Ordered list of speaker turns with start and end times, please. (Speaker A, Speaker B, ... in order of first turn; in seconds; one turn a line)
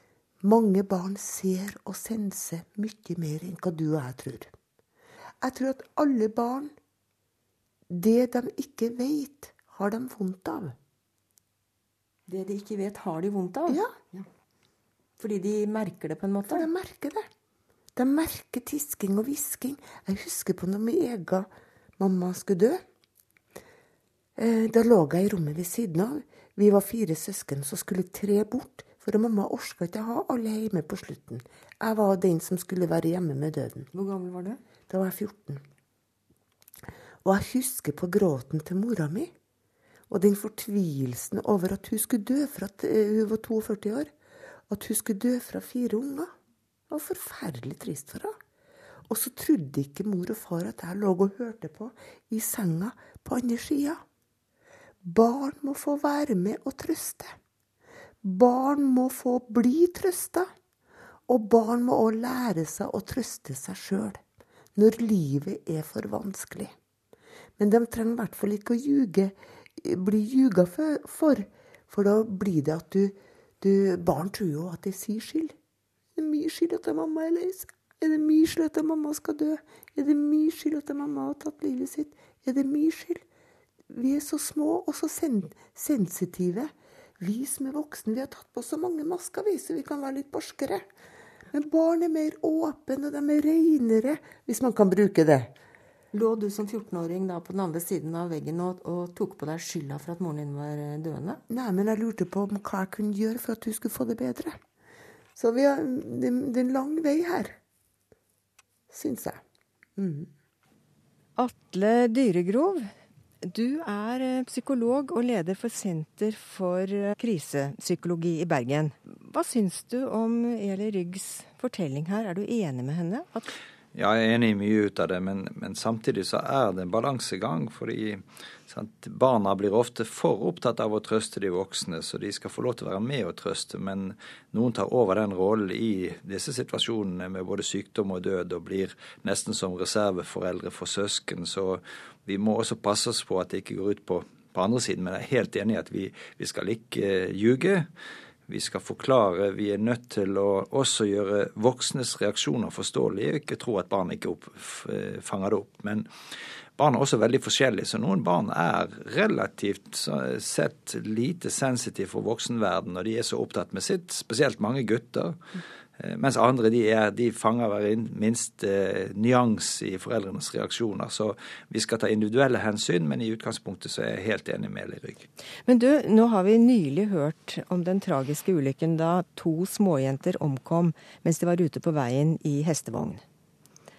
Speaker A: 0.4-4.5
Speaker A: 5.4-6.7
Speaker A: 7.9-10.8
Speaker B: 12.3-14.2
Speaker A: 13.7-13.9
Speaker B: 15.2-16.7
Speaker A: 16.4-17.2
Speaker A: 17.9-22.8
Speaker A: 24.4-33.9
Speaker B: 33.9-34.6
Speaker A: 34.9-35.6
Speaker A: 37.2-39.3
Speaker A: 40.1-44.1
Speaker A: 44.7-46.3
Speaker A: 46.9-48.3
Speaker A: 49.1-54.0
Speaker A: 55.0-57.3
Speaker A: 58.2-60.5
Speaker A: 61.3-64.2
Speaker A: 64.8-66.7
Speaker A: 67.6-75.5
Speaker A: 76.2-83.2
Speaker A: 83.9-90.8
Speaker A: 91.5-95.5
Speaker B: 96.1-101.4
Speaker A: 101.5-104.6
Speaker A: 105.3-107.6
Speaker A: 108.9-109.4
Speaker A: 110.0-110.3
Speaker B: 111.3-112.9
Speaker B: 113.4-123.5
Speaker C: 124.0-147.9
Speaker C: 148.5-156.1
Speaker C: 156.8-165.4
Speaker C: 166.0-175.3
Speaker B: 175.7-183.2